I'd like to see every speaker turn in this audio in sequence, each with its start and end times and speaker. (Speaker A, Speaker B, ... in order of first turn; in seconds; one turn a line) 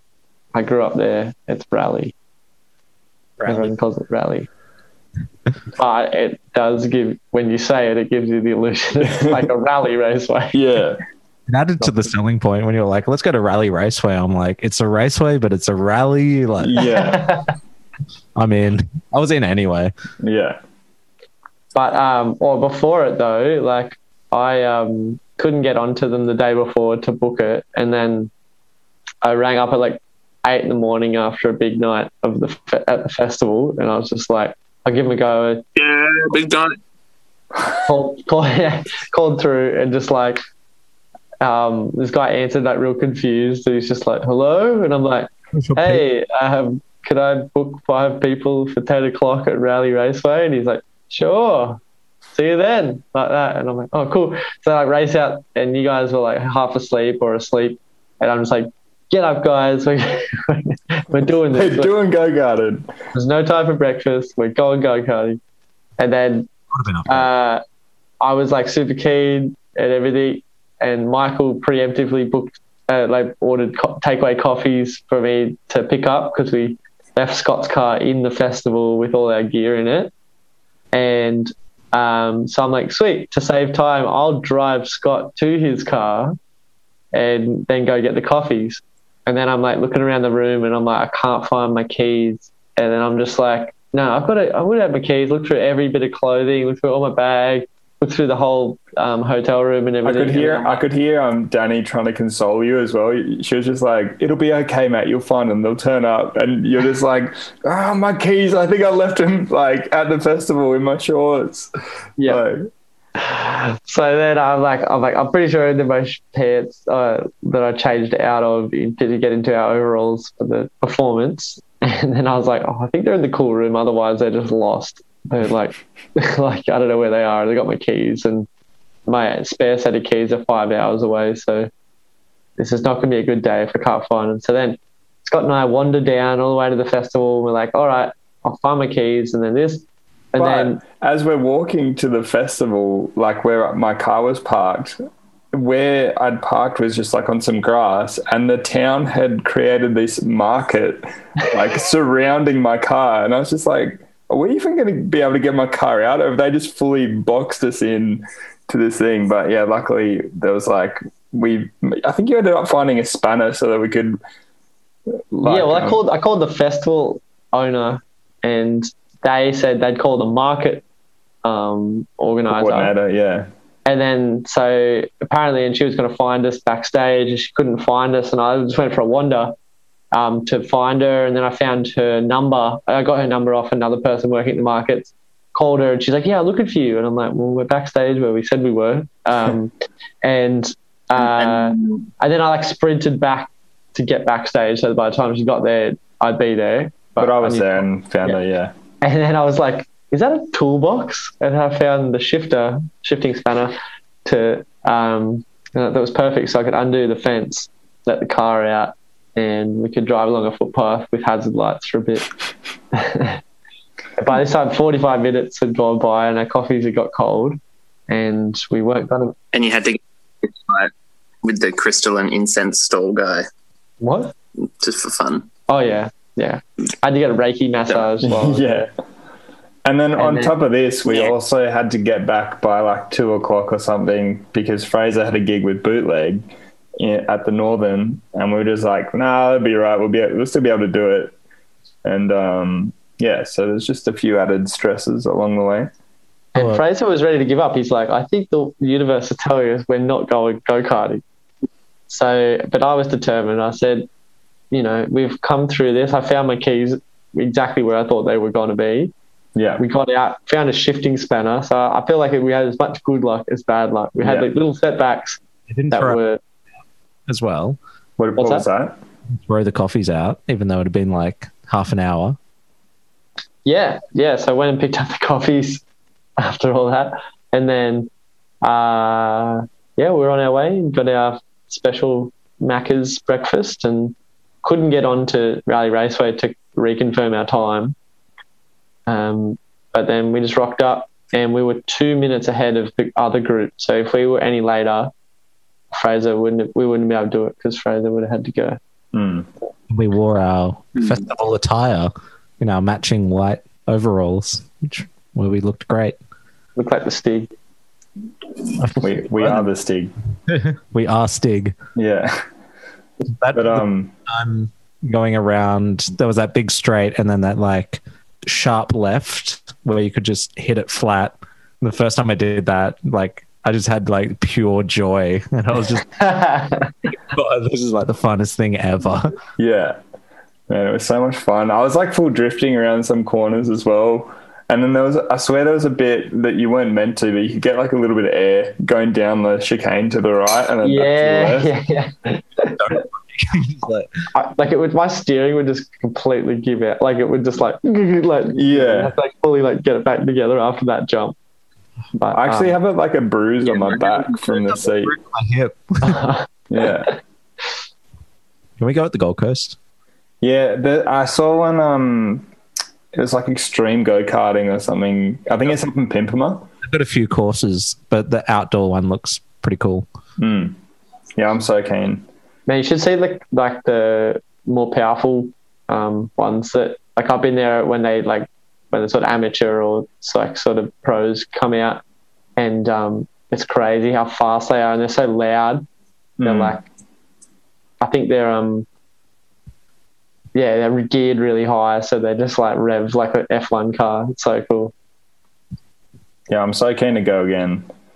Speaker A: 0.5-2.1
Speaker B: 3.4-3.7
Speaker A: 3.5-4.5
Speaker A: 5.8-10.6
Speaker C: 9.0-9.5
Speaker C: 10.5-11.0
Speaker B: 11.5-16.9
Speaker C: 16.6-17.3
Speaker A: 16.8-17.5
Speaker B: 18.4-19.9
Speaker C: 20.2-20.6
Speaker A: 21.7-28.3
Speaker A: 29.2-35.6
Speaker D: 35.8-36.8
Speaker A: 37.8-40.4
Speaker A: 41.4-51.8
Speaker B: 45.5-46.0
Speaker A: 52.3-61.9
Speaker C: 61.5-62.9
Speaker A: 63.1-65.4
Speaker A: 66.0-66.5
Speaker B: 66.7-67.3
Speaker A: 67.1-67.6
Speaker A: 68.2-80.1
Speaker A: 80.9-86.4
Speaker A: 87.1-100.8
Speaker C: 100.0-111.7
Speaker C: 112.2-112.7
Speaker A: 113.2-128.5
Speaker A: 129.1-131.7
Speaker A: 132.6-140.8
Speaker C: 140.4-145.0
Speaker C: 145.5-164.2
Speaker C: 165.3-166.0
Speaker A: 165.4-170.8
Speaker A: 171.4-172.9
Speaker C: 172.5-173.5
Speaker A: 173.9-179.5
Speaker A: 180.1-198.4
Speaker D: 191.2-192.1
Speaker C: 197.2-198.7
Speaker A: 199.0-212.3
Speaker A: 212.9-213.4
Speaker A: 214.2-219.4
Speaker D: 219.5-220.9
Speaker D: 221.4-223.5
Speaker A: 224.0-224.3
Speaker D: 224.6-225.5
Speaker A: 225.7-228.9
Speaker C: 228.2-228.9
Speaker C: 229.8-241.4
Speaker A: 230.2-230.5
Speaker D: 231.1-231.3
Speaker C: 242.1-245.9
Speaker A: 246.5-251.2
Speaker B: 246.6-246.8
Speaker A: 252.1-254.1
Speaker A: 254.7-259.1
Speaker C: 259.6-259.8
Speaker A: 259.8-265.4
Speaker C: 264.2-264.5
Speaker B: 265.7-266.2
Speaker A: 265.9-266.4
Speaker B: 267.3-267.8
Speaker C: 268.2-269.0
Speaker A: 268.4-268.7
Speaker B: 269.3-272.4
Speaker A: 273.6-275.8
Speaker A: 276.4-278.1
Speaker A: 278.6-287.9
Speaker A: 289.1-295.1
Speaker A: 295.9-298.8
Speaker C: 299.1-299.5
Speaker B: 299.9-306.2
Speaker A: 306.8-307.5
Speaker B: 308.8-309.6
Speaker C: 309.0-310.1
Speaker B: 310.5-311.8
Speaker C: 312.0-312.4
Speaker B: 313.3-326.1
Speaker C: 313.5-314.1
Speaker A: 326.2-326.9
Speaker B: 327.3-329.4
Speaker C: 329.6-330.0
Speaker C: 330.7-341.7
Speaker A: 340.8-343.0
Speaker B: 342.7-344.1
Speaker A: 344.3-351.4
Speaker C: 348.6-349.1
Speaker A: 352.2-352.8
Speaker C: 352.3-355.1
Speaker D: 353.6-354.5
Speaker B: 354.6-356.2
Speaker A: 356.0-356.5
Speaker C: 356.7-357.2
Speaker B: 358.8-359.8
Speaker C: 360.4-362.5
Speaker C: 363.1-366.7
Speaker B: 366.8-370.1
Speaker C: 370.4-370.8
Speaker C: 371.4-372.3
Speaker A: 372.7-382.0
Speaker A: 382.6-385.9
Speaker C: 386.4-386.8
Speaker A: 386.4-386.8
Speaker A: 388.0-388.9
Speaker A: 390.5-394.9
Speaker C: 396.5-397.9